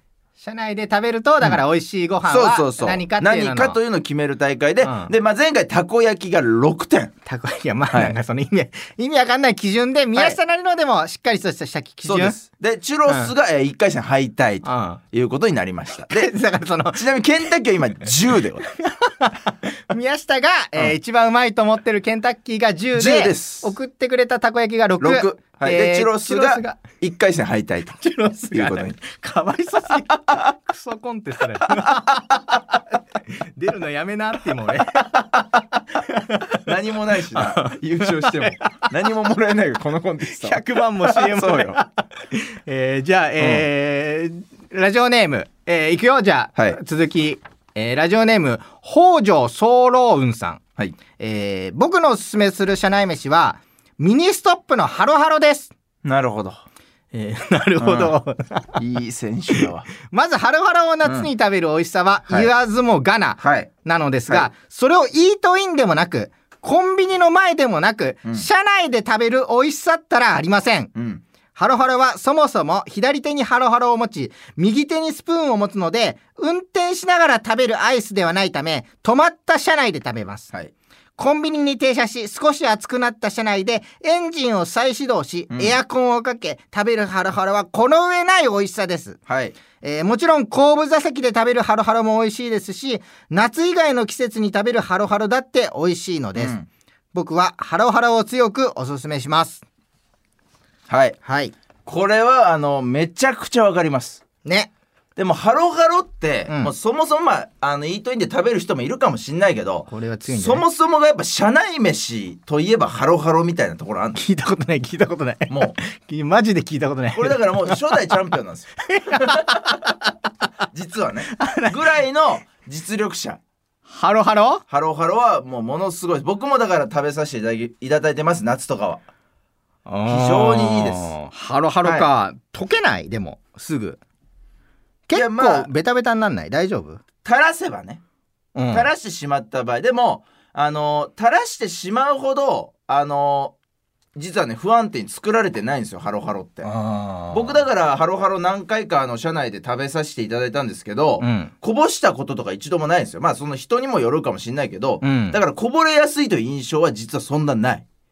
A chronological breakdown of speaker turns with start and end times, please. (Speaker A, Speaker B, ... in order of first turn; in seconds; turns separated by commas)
Speaker A: 0.4-3.8, Speaker B: 2.2-7.1, Speaker A: 4.8-5.1, Speaker A: 7.2-12.4, Speaker B: 12.1-16.3, Speaker A: 13.1-13.3, Speaker A: 14.6-15.0, Speaker A: 16.0-17.1, Speaker B: 16.9-18.7, Speaker A: 18.8-26.8, Speaker B: 22.9-23.7, Speaker B: 25.0-28.9, Speaker A: 28.0-36.6, Speaker B: 36.6-41.8, Speaker A: 37.3-38.9, Speaker A: 40.3-50.6, Speaker B: 43.4-43.7, Speaker A: 51.2-55.7, Speaker B: 56.0-56.6, Speaker A: 57.1-58.8, Speaker B: 57.8-58.1, Speaker B: 58.8-59.9, Speaker A: 59.5-70.9, Speaker B: 61.0-61.3, Speaker B: 63.4-63.7, Speaker B: 71.0-71.2, Speaker A: 71.5-80.5, Speaker A: 81.2-89.2, Speaker B: 85.5-85.8, Speaker B: 89.3-89.6, Speaker A: 89.8-96.5, Speaker B: 96.4-96.7, Speaker A: 97.1-99.6, Speaker B: 100.9-101.2, Speaker A: 101.2-101.5, Speaker B: 101.8-104.2, Speaker A: 104.4-104.7, Speaker B: 105.2-114.2, Speaker A: 109.9-110.6, Speaker A: 114.2-118.0, Speaker B: 115.5-115.8, Speaker B: 117.1-119.4, Speaker A: 118.9-120.1, Speaker B: 120.7-123.4, Speaker A: 121.2-122.0, Speaker A: 123.9-124.6, Speaker B: 124.7-129.0, Speaker A: 129.9-134.0, Speaker B: 130.1-131.1, Speaker B: 131.8-132.1, Speaker A: 135.1-137.0, Speaker B: 135.1-135.7, Speaker B: 137.2-138.0, Speaker A: 138.6-138.9, Speaker B: 138.7-143.6, Speaker B: 144.2-146.7, Speaker A: 146.6-147.6, Speaker B: 147.3-157.8, Speaker A: 151.2-151.5, Speaker A: 155.0-155.4